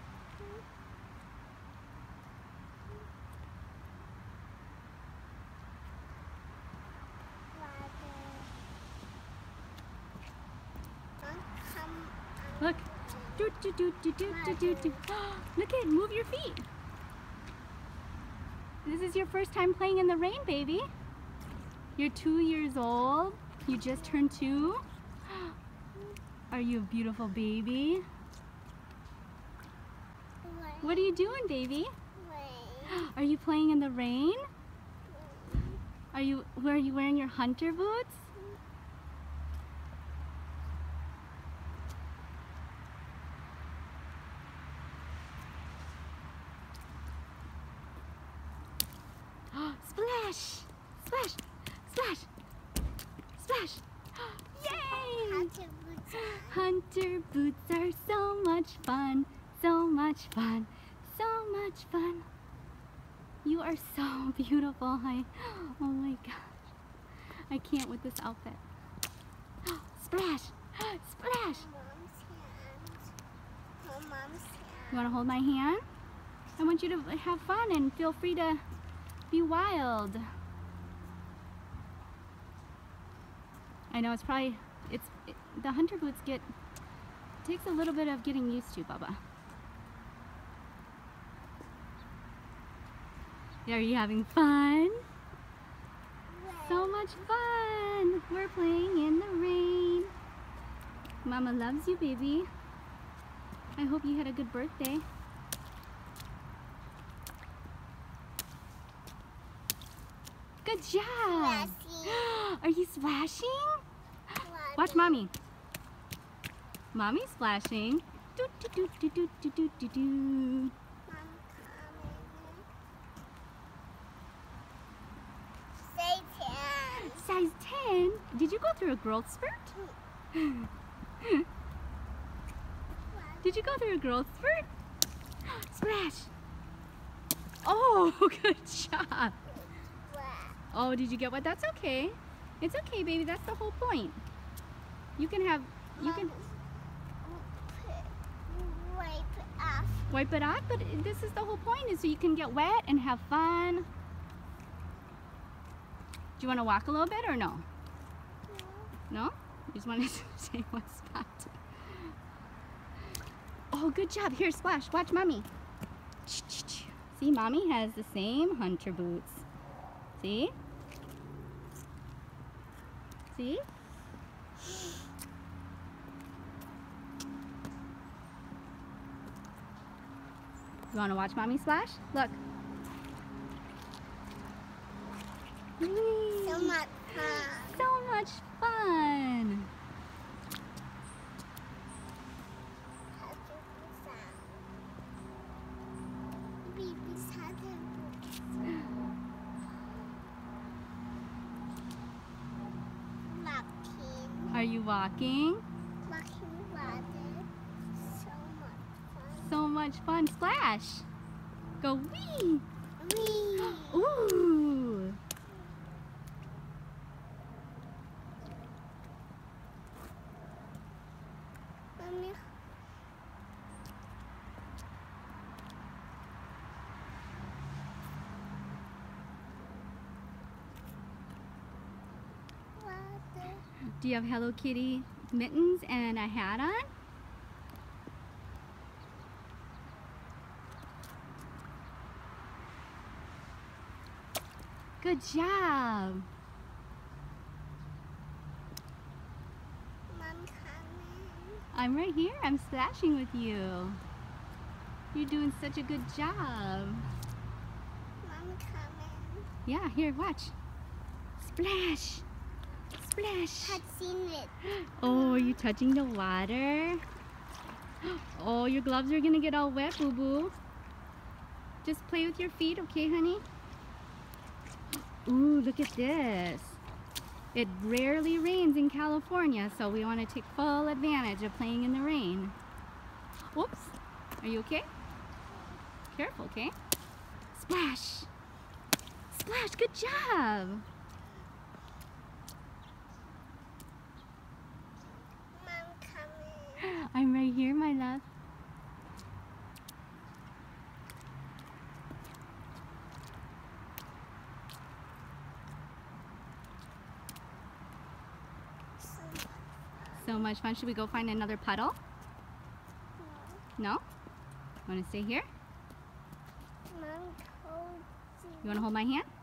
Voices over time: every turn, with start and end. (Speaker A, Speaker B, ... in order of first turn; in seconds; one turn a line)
Speaker A: 7.5-8.5
Speaker A: 11.2-13.5
Speaker B: 12.6-16.6
Speaker A: 14.2-15.1
Speaker B: 18.8-20.9
Speaker B: 22.0-25.5
Speaker A: 23.7-24.7
Speaker B: 26.5-28.0
Speaker A: 30.4-31.2
Speaker B: 30.8-31.9
Speaker A: 32.1-33.1
Speaker B: 32.9-34.4
Speaker A: 35.1-35.8
Speaker B: 36.1-38.2
Speaker B: 49.5-52.3
Speaker B: 53.4-55.5
Speaker A: 54.5-56.7
Speaker B: 56.1-62.2
Speaker B: 63.4-66.7
Speaker B: 67.5-68.6
Speaker B: 69.6-71.7
Speaker A: 71.4-73.1
Speaker A: 73.8-75.2
Speaker B: 74.9-75.8
Speaker B: 76.6-78.6
Speaker B: 79.3-80.2
Speaker B: 83.9-86.4
Speaker B: 87.4-89.2
Speaker B: 93.7-95.0
Speaker A: 96.3-97.3
Speaker B: 96.6-100.1
Speaker B: 101.2-102.5
Speaker B: 103.8-105.0
Speaker B: 110.6-115.3
Speaker A: 111.2-112.4
Speaker A: 114.4-115.3
Speaker B: 116.9-120.7
Speaker A: 121.0-122.7
Speaker A: 125.8-127.3
Speaker B: 127.0-129.7
Speaker B: 130.3-131.4
Speaker A: 133.1-133.8
Speaker B: 133.4-134.7
Speaker B: 135.4-136.3
Speaker B: 137.6-139.3
Speaker A: 139.5-140.6
Speaker B: 140.7-144.2
Speaker B: 145.2-146.3
Speaker A: 146.0-146.5
Speaker A: 147.2-150.1
Speaker B: 150.1-153.9
Speaker B: 156.4-157.7
Speaker A: 158.5-158.9
Speaker B: 159.1-162.1
Speaker B: 163.7-165.5
Speaker B: 166.2-169.4
Speaker B: 170.2-170.5
Speaker B: 173.3-173.6
Speaker B: 180.9-182.4
Speaker B: 185.8-189.7
Speaker A: 186.4-187.9
Speaker A: 193.1-194.6
Speaker A: 196.6-198.5
Speaker A: 203.2-204.6
Speaker B: 204.5-205.6
Speaker A: 206.0-209.7
Speaker B: 209.4-211.1
Speaker B: 211.8-212.6
Speaker A: 213.0-214.2
Speaker B: 213.6-215.2
Speaker A: 222.0-222.4
Speaker A: 232.8-233.6
Speaker B: 234.0-236.9
Speaker B: 245.0-246.3
Speaker A: 250.1-251.6
Speaker B: 251.7-254.0
Speaker B: 255.1-257.1
Speaker A: 258.2-259.5
Speaker B: 259.6-260.5
Speaker B: 261.4-262.2
Speaker B: 263.0-263.8
Speaker A: 263.6-265.6
Speaker B: 264.6-267.0
Speaker B: 268.0-270.6
Speaker B: 271.8-273.4
Speaker B: 274.9-276.8
Speaker B: 277.5-282.5
Speaker B: 283.5-284.9
Speaker A: 285.5-285.8
Speaker B: 286.1-286.7
Speaker B: 287.5-288.3
Speaker B: 289.3-290.8
Speaker A: 295.5-296.9
Speaker B: 296.8-298.2
Speaker A: 309.0-310.5
Speaker B: 310.2-311.9
Speaker A: 313.2-313.6
Speaker B: 313.8-314.0
Speaker B: 314.9-315.5
Speaker A: 316.9-318.9
Speaker B: 318.6-319.3